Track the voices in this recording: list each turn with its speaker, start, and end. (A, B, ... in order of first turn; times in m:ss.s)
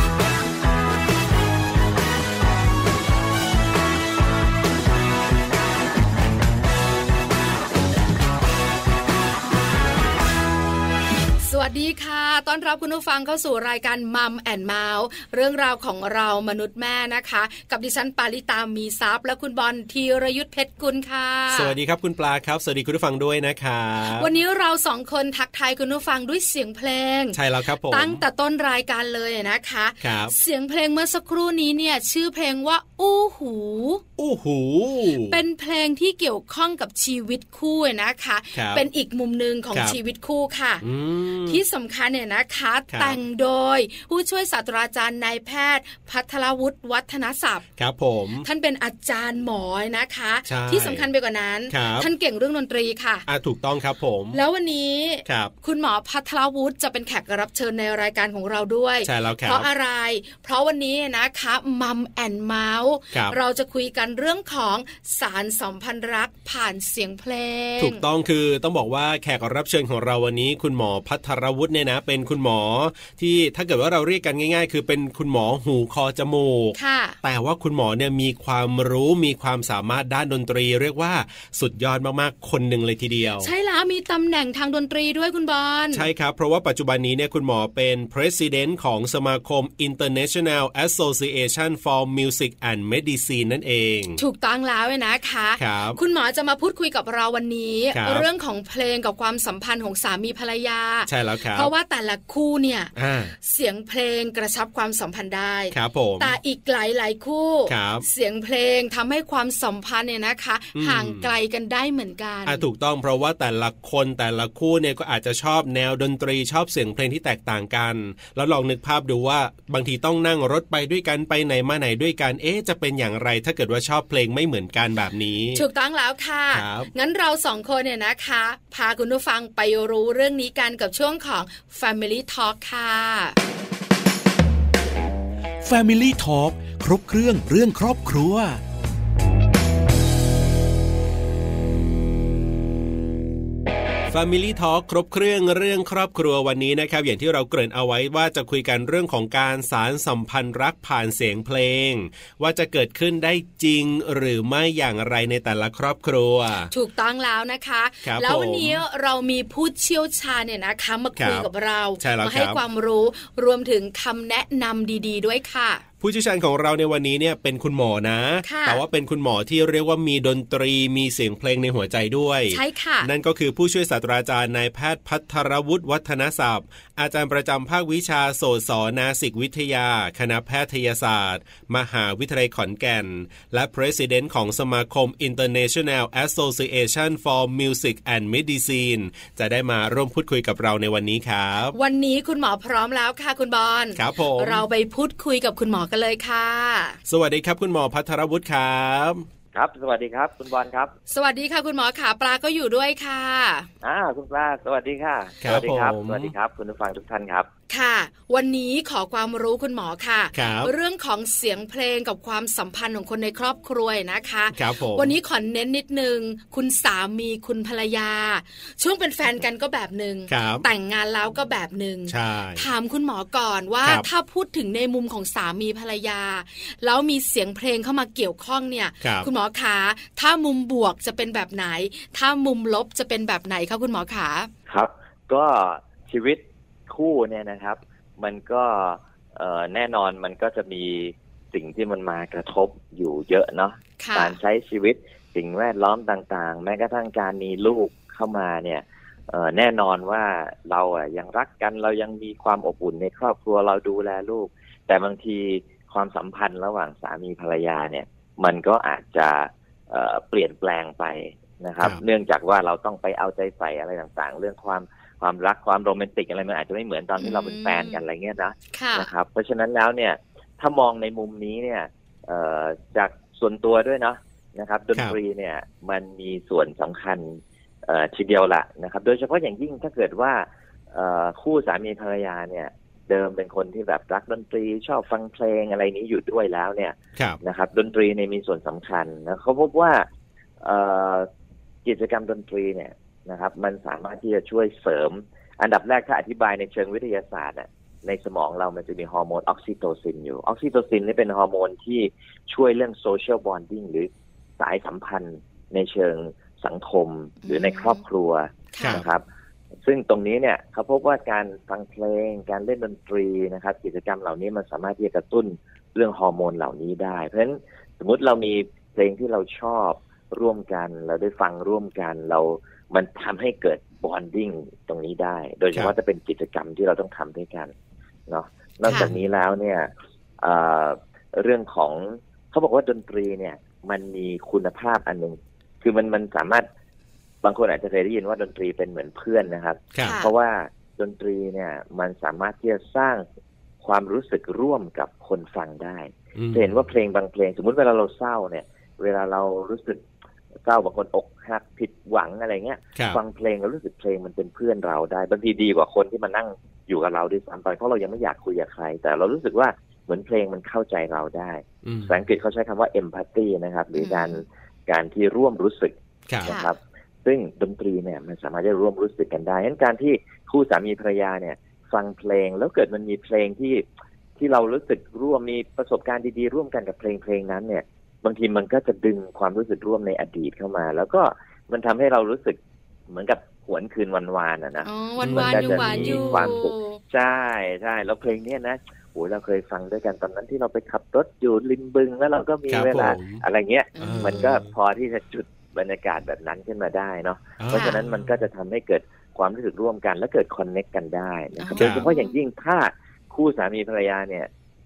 0:11.4-0:21.7 A
0:21.5-0:24.3 B
0:24.0-0:34.0 A
0:27.3-0:28.2 B
0:30.0-0:30.3 B
0:34.2-0:35.4 B
0:35.3-0:40.8 A
0:38.6-0:38.9 B
0:39.7-0:40.0 B
0:40.8-0:41.6 B
0:41.5-0:47.6 A
0:42.9-0:43.2 B
0:47.8-0:48.5 B
0:48.4-0:53.2 A
0:50.5-0:51.1 B
0:51.7-0:52.1 B
0:53.3-0:54.4 B
0:54.3-1:08.0 A
0:55.3-0:55.5 B
0:59.0-0:59.7 B
1:07.8-1:23.5 B
1:16.8-1:17.2 A
1:23.4-1:26.1 A
1:25.9-1:34.2 B
1:34.2-1:52.6 A
1:35.6-1:36.0 B
1:37.9-1:38.3 B
1:41.1-1:41.7 B
1:43.0-1:43.3 B
1:45.7-1:46.3 B
1:47.7-1:48.1 B
1:50.8-1:51.3 B
1:52.5-2:05.6 B
2:05.6-2:13.4 A
2:06.5-2:06.9 B
2:15.6-2:18.6 C
2:24.1-2:36.7 B
2:36.7-2:45.8 A
2:38.0-2:38.8 B
2:41.2-2:41.5 B
2:42.0-2:42.6 B
2:46.0-3:11.8 B
2:48.4-2:48.8 A
2:52.5-2:53.1 A
3:11.7-3:17.0 A
3:14.0-3:14.6 B
3:17.1-3:19.2 B
3:19.5-3:20.9 D
3:21.1-3:23.7 A
3:23.8-3:27.5 D
3:25.4-3:26.3 B
3:27.7-3:54.5 A
3:30.3-3:30.7 B
3:34.5-3:35.1 B
3:40.3-3:40.7 B
3:42.1-3:42.7 B
3:49.0-3:49.3 B
3:54.7-4:50.0 D
4:04.0-4:04.4 A
4:27.2-4:28.0 A
4:28.7-4:29.1 A
4:50.6-4:51.3 D
4:51.8-5:09.2 D
5:07.4-5:08.0 A
5:08.7-5:09.0 A
5:08.8-5:09.1 B
5:09.8-5:27.7 D
5:28.3-5:36.7 D
5:37.4-5:43.2 D
5:39.9-5:40.2 B
5:40.0-5:40.3 A
5:43.8-5:50.0 D
5:46.4-5:46.8 B
5:50.6-6:13.8 D
5:53.0-5:53.2 B
6:01.8-6:02.2 B
6:04.0-6:04.4 A
6:06.4-6:06.7 A
6:14.4-6:44.5 D
6:24.8-6:27.0 A
6:25.2-6:26.6 B
6:32.7-6:33.4 B
6:34.0-6:34.5 A
6:34.0-6:34.7 B
6:37.6-6:38.4 B
6:37.7-6:38.0 A
6:41.6-6:42.4 A
6:41.8-6:42.1 B